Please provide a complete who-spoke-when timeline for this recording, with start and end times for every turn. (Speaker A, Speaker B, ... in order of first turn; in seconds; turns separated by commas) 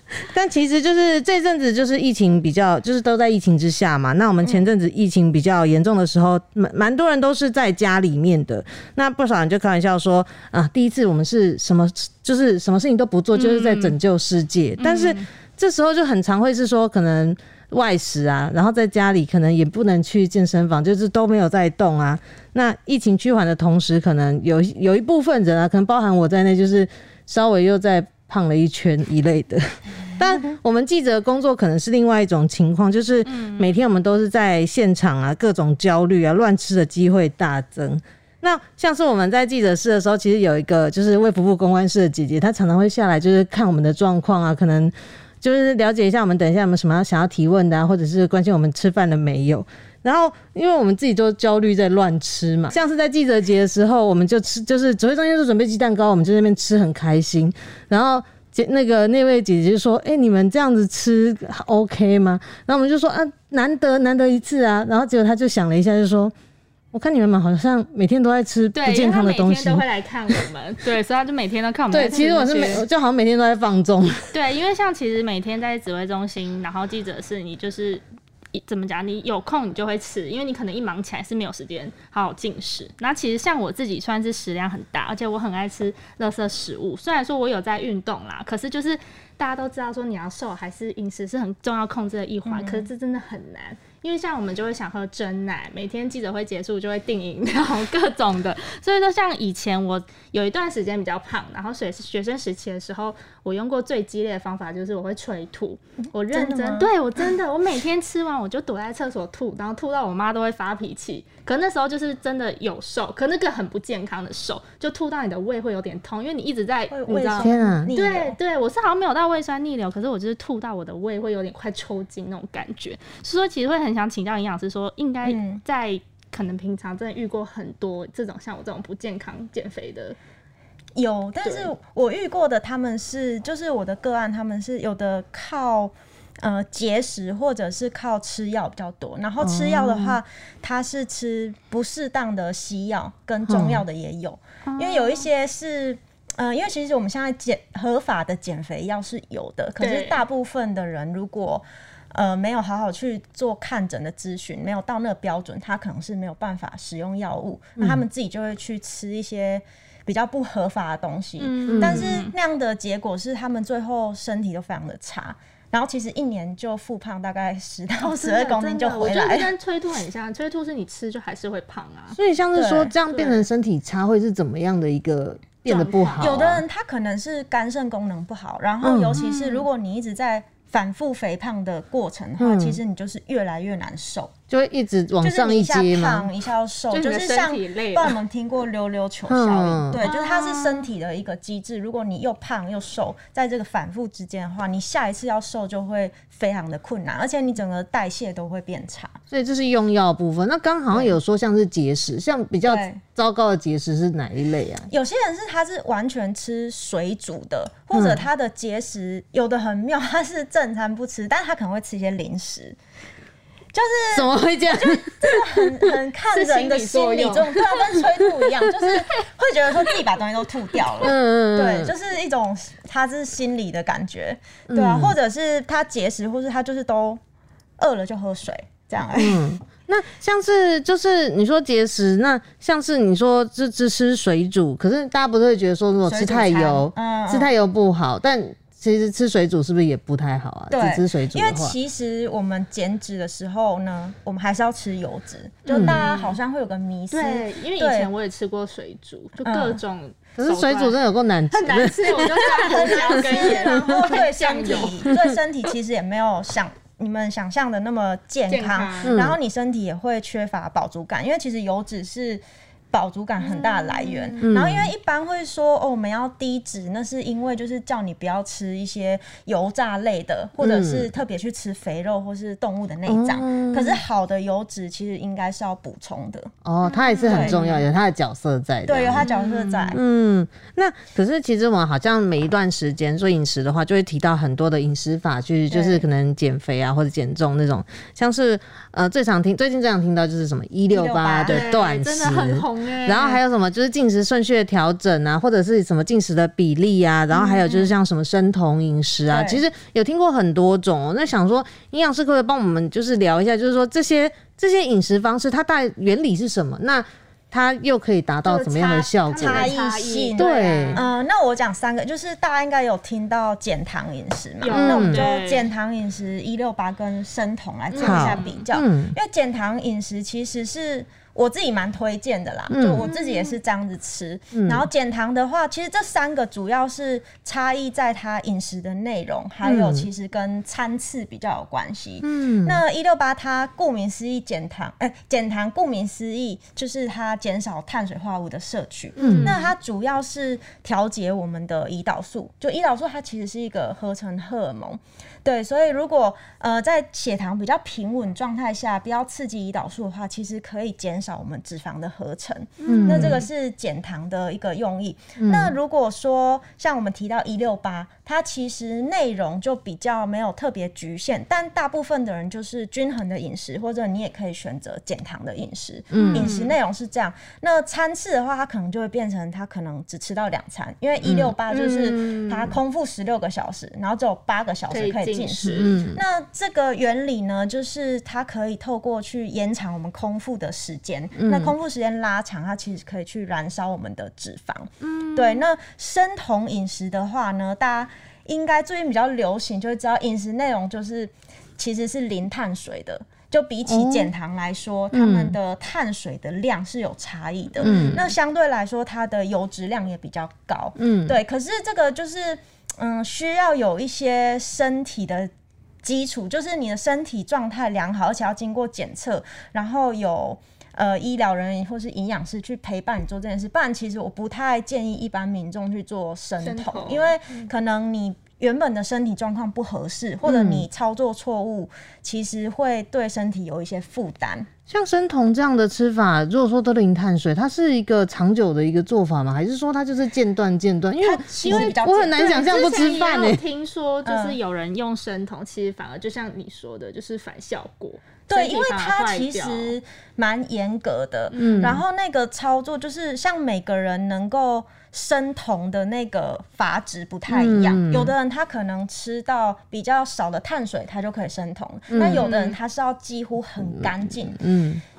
Speaker A: 0.2-66.3, Speaker B: 4.4-4.7, Speaker C: 13.3-14.0, Speaker C: 14.8-15.3, Speaker C: 33.3-33.7, Speaker A: 66.9-69.8, Speaker C: 68.8-72.8, Speaker A: 71.9-74.2, Speaker C: 74.3-78.0, Speaker C: 78.5-130.2, Speaker B: 92.5-92.9, Speaker B: 106.3-106.9, Speaker B: 116.9-118.4, Speaker A: 117.4-117.9, Speaker B: 125.2-125.6, Speaker B: 131.0-169.5, Speaker C: 131.4-131.7, Speaker A: 139.4-140.2, Speaker A: 143.5-143.8, Speaker C: 144.7-145.2, Speaker C: 149.8-150.2, Speaker C: 161.4-162.3, Speaker A: 161.7-162.1, Speaker C: 168.0-172.2, Speaker A: 172.2-176.6, Speaker B: 172.6-172.9, Speaker C: 173.1-173.4, Speaker C: 175.6-176.4, Speaker B: 176.2-184.3, Speaker A: 178.8-179.2, Speaker C: 179.2-179.6, Speaker A: 182.4-182.8, Speaker A: 184.5-186.3, Speaker B: 185.2-199.2, Speaker C: 186.9-188.2, Speaker A: 189.3-190.0, Speaker C: 190.0-190.9, Speaker A: 199.3-204.9, Speaker B: 200.9-201.2, Speaker B: 202.7-203.0, Speaker B: 204.9-212.8, Speaker A: 207.9-208.2, Speaker B: 213.7-227.2, Speaker A: 214.1-215.8, Speaker C: 216.3-217.7, Speaker A: 221.0-221.9, Speaker A: 224.7-225.2, Speaker B: 227.8-229.6, Speaker A: 229.2-241.8, Speaker B: 236.1-237.5, Speaker B: 240.7-248.1, Speaker C: 245.7-246.4, Speaker A: 245.7-246.0, Speaker C: 247.1-251.0, Speaker B: 249.4-249.8, Speaker A: 250.4-253.8, Speaker C: 251.5-255.1, Speaker B: 252.0-276.5, Speaker C: 258.5-259.2, Speaker A: 259.1-259.4, Speaker C: 263.4-264.5, Speaker A: 264.4-264.9, Speaker A: 270.6-271.1, Speaker A: 273.1-274.0, Speaker A: 276.6-279.3, Speaker C: 276.8-277.9, Speaker B: 277.2-277.6, Speaker B: 278.9-280.0, Speaker C: 279.2-279.9, Speaker A: 279.9-309.8, Speaker B: 285.7-286.0, Speaker B: 290.9-291.7, Speaker C: 291.5-293.4, Speaker B: 297.3-297.9, Speaker B: 299.3-299.6, Speaker C: 308.4-311.1, Speaker B: 309.4-405.5, Speaker A: 310.4-311.0, Speaker C: 314.6-315.7, Speaker A: 314.7-315.2, Speaker C: 317.9-318.6, Speaker A: 318.0-319.1, Speaker A: 322.7-323.1, Speaker C: 323.0-323.6, Speaker A: 324.5-324.9, Speaker A: 329.6-330.1, Speaker A: 332.2-332.8, Speaker C: 339.2-339.7, Speaker A: 339.2-339.6, Speaker C: 352.8-353.4, Speaker A: 352.9-353.4, Speaker A: 355.4-355.7, Speaker A: 366.1-366.5, Speaker C: 366.1-366.8, Speaker A: 371.2-371.6, Speaker C: 371.7-372.7, Speaker C: 374.9-376.0, Speaker A: 375.8-376.2, Speaker A: 381.4-381.8, Speaker C: 385.0-385.6, Speaker A: 393.9-394.3, Speaker A: 395.1-395.6, Speaker C: 397.8-398.2, Speaker A: 397.8-398.2, Speaker A: 401.0-401.4, Speaker B: 406.0-424.7, Speaker C: 416.6-417.7, Speaker A: 420.4-420.9, Speaker A: 424.9-433.6, Speaker B: 431.2-433.0, Speaker C: 431.6-439.9, Speaker B: 434.2-434.6, Speaker B: 438.5-454.6, Speaker A: 441.5-442.0, Speaker A: 447.5-448.3, Speaker A: 452.1-452.5, Speaker C: 452.3-452.8, Speaker A: 453.8-455.0